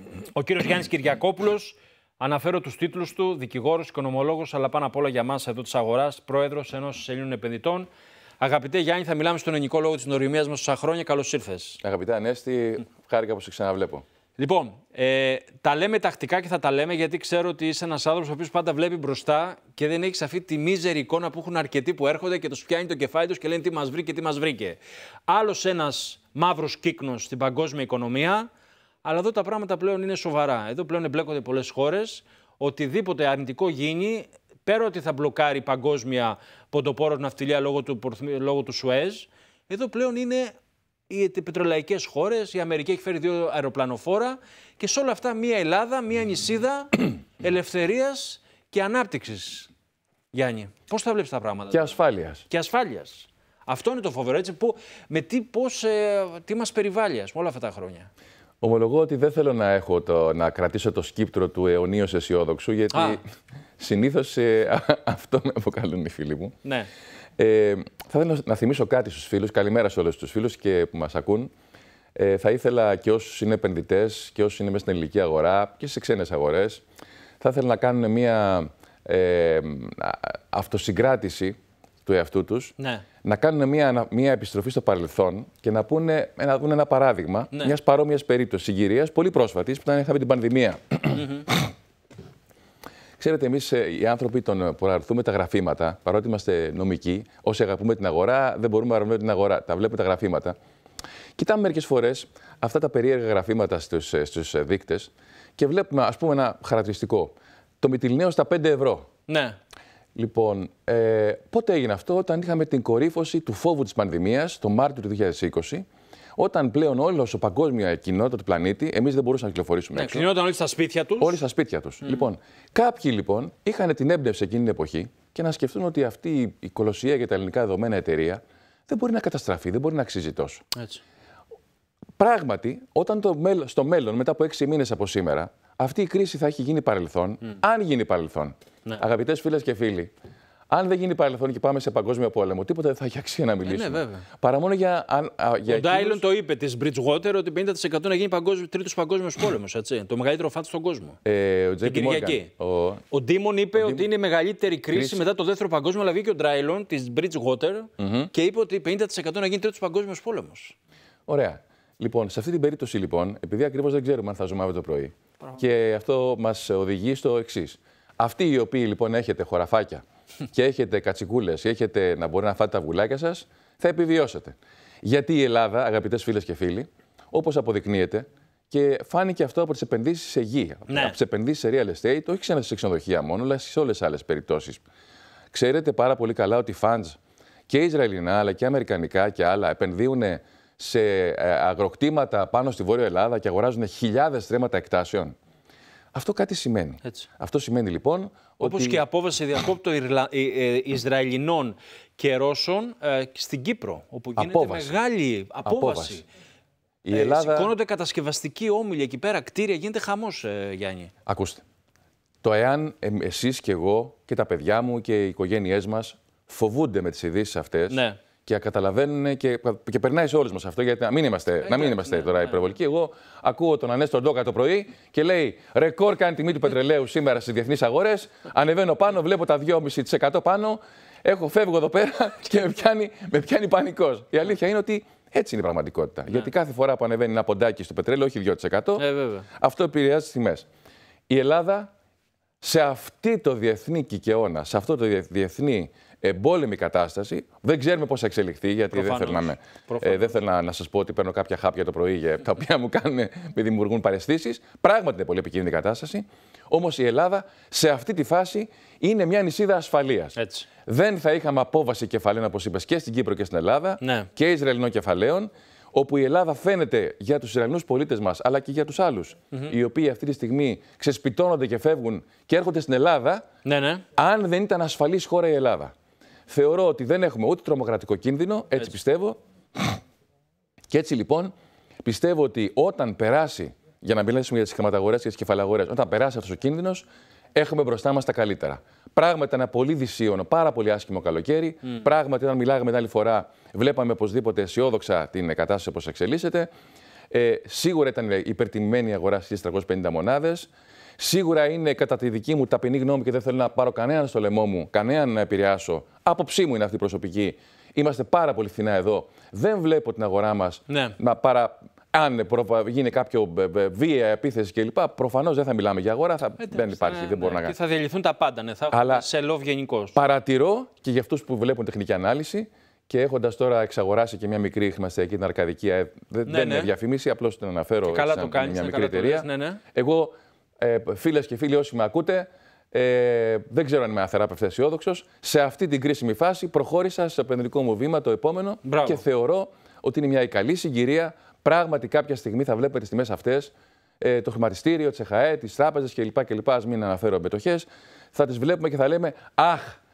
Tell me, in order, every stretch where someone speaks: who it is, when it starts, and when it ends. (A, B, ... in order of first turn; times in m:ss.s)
0:00.4-0:07.9 A
0:08.4-0:11.8 A
0:11.8-0:14.0 B
0:14.4-0:28.5 A
0:29.0-0:40.5 A
0:41.1-0:49.7 A
0:50.3-0:52.0 A
0:51.7-0:52.4 B
0:52.5-0:58.1 A
0:58.6-1:03.2 B
1:02.9-1:03.2 A
1:03.8-1:06.6 B
1:06.6-1:06.9 A
1:07.4-1:11.5 B
1:12.2-1:16.8 B
1:17.4-1:31.7 B
1:22.8-1:23.0 A
1:31.2-1:31.5 A
1:33.2-1:40.6 B
1:41.4-1:49.1 B
1:49.3-1:49.6 A
1:50.2-1:55.9 B
1:56.4-2:00.3 B
1:59.9-2:01.4 A
2:01.2-2:10.6 B
2:10.8-2:11.0 A
2:12.2-2:20.1 B
2:20.7-2:26.2 B
2:23.6-2:24.3 A
2:25.7-2:31.2 A
2:31.2-2:33.0 B
2:31.8-2:32.5 A
2:33.1-2:40.8 A
2:33.8-2:34.1 B
2:34.9-2:35.3 B
2:38.0-2:38.3 B
2:41.3-3:04.8 B
3:00.9-3:01.2 A
3:05.5-3:07.2 B
3:07.7-3:15.4 B
3:16.1-3:19.0 B
3:18.6-3:26.2 A
3:24.4-3:25.0 B
3:25.6-3:26.2 B
3:27.0-3:27.7 B
3:27.1-3:31.1 A
3:31.3-3:31.6 B
3:32.4-4:00.7 B
3:37.9-3:38.2 A
3:41.6-3:42.6 A
3:59.0-3:59.5 A
4:01.3-4:01.9 B
4:02.6-4:33.4 B
4:08.9-4:10.4 A
4:20.4-4:20.7 A
4:24.0-4:24.3 A
4:33.6-4:34.0 A
4:34.2-4:35.9 B
4:36.5-4:40.0 B
4:40.9-4:41.5 B
4:42.0-4:56.7 B
4:57.3-5:17.8 B
5:10.9-5:11.2 A
5:16.6-5:20.2 A
5:18.9-5:19.3 B
5:20.2-5:50.0 B
5:26.5-5:26.9 A
5:28.0-5:29.8 A
5:38.8-5:39.2 A